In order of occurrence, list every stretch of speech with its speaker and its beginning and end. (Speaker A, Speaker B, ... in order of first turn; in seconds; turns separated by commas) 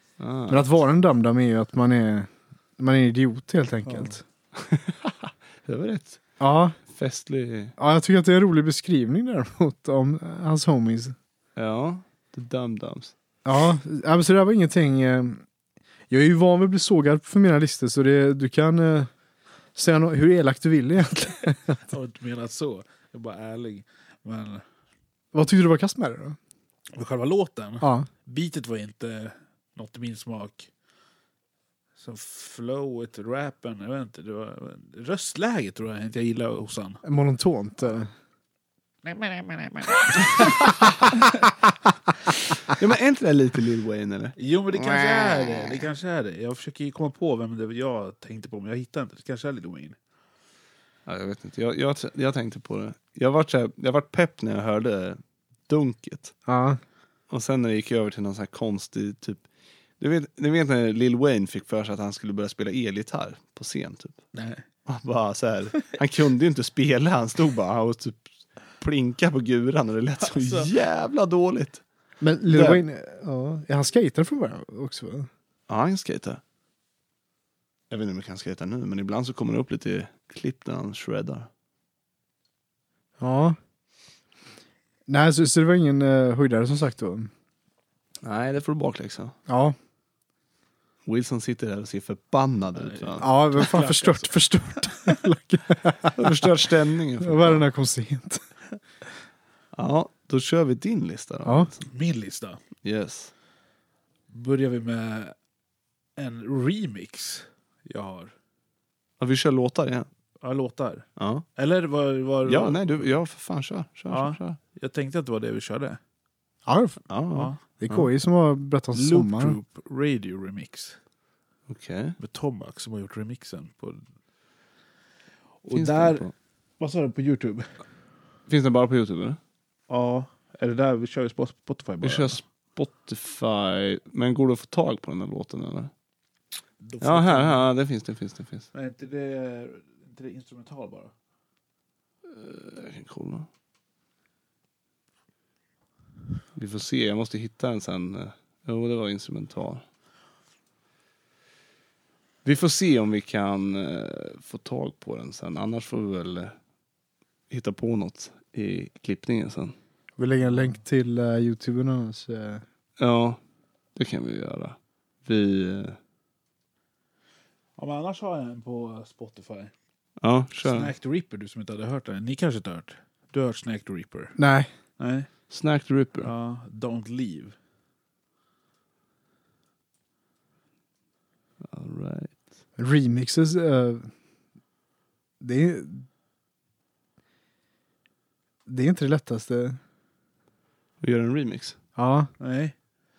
Speaker A: 0.2-0.6, Speaker B: 0.5-4.2, Speaker A: 4.6-6.2, Speaker B: 6.4-6.8, Speaker A: 6.9-7.8, Speaker B: 7.8-11.2, Speaker A: 11.6-13.1, Speaker B: 13.4-15.4, Speaker B: 16.1-19.1, Speaker B: 19.8-21.8, Speaker C: 21.9-24.6, Speaker B: 25.3-26.4, Speaker C: 26.9-30.7, Speaker B: 27.8-28.1, Speaker C: 32.0-37.0, Speaker B: 37.0-38.1, Speaker C: 39.1-40.0, Speaker A: 42.7-45.7, Speaker C: 44.4-50.0, Speaker A: 51.1-56.4, Speaker B: 56.5-56.8, Speaker A: 57.3-59.4, Speaker A: 60.0-64.2, Speaker C: 64.3-64.6, Speaker A: 64.9-71.8, Speaker C: 70.3-70.7, Speaker B: 72.2-75.3, Speaker A: 72.5-72.8, Speaker A: 75.7-76.4, Speaker A: 77.9-81.5, Speaker B: 83.2-83.6, Speaker B: 85.1-87.3, Speaker A: 88.2-89.3, Speaker B: 89.5-89.8, Speaker A: 91.1-93.3, Speaker C: 92.8-94.3, Speaker B: 93.2-96.3, Speaker A: 96.2-97.6, Speaker B: 97.2-98.5, Speaker A: 99.7-101.9, Speaker B: 101.5-101.7, Speaker C: 101.9-102.6, Speaker A: 102.8-103.3, Speaker C: 104.3-105.4, Speaker C: 106.2-108.3, Speaker A: 109.2-110.1, Speaker C: 110.4-113.1, Speaker A: 111.2-111.5, Speaker A: 112.5-114.6, Speaker C: 114.1-116.0, Speaker B: 116.7-117.1, Speaker A: 117.1-118.1, Speaker B: 117.8-119.6, Speaker C: 118.9-121.0, Speaker A: 121.7-122.2, Speaker C: 122.2-124.0, Speaker C: 125.6-126.3, Speaker A: 125.7-126.3, Speaker C: 126.8-127.7, Speaker A: 128.5-129.4, Speaker C: 129.9-132.4, Speaker A: 132.0-135.9, Speaker C: 136.8-137.7, Speaker A: 137.0-138.7, Speaker C: 138.7-141.1, Speaker A: 142.3-143.5, Speaker A: 146.6-149.8, Speaker A: 152.4-156.6, Speaker A: 157.5-159.8, Speaker B: 160.2-162.6, Speaker A: 163.0-163.4, Speaker A: 164.0-166.0, Speaker C: 167.8-169.7, Speaker A: 170.2-170.9, Speaker C: 170.6-174.3, Speaker B: 174.4-174.7, Speaker C: 175.0-175.3, Speaker A: 175.5-176.3, Speaker C: 176.2-177.6, Speaker A: 181.7-182.4, Speaker B: 182.8-184.1, Speaker B: 185.4-186.1, Speaker B: 188.7-189.8, Speaker A: 191.0-191.8, Speaker B: 192.0-192.3, Speaker C: 192.4-192.7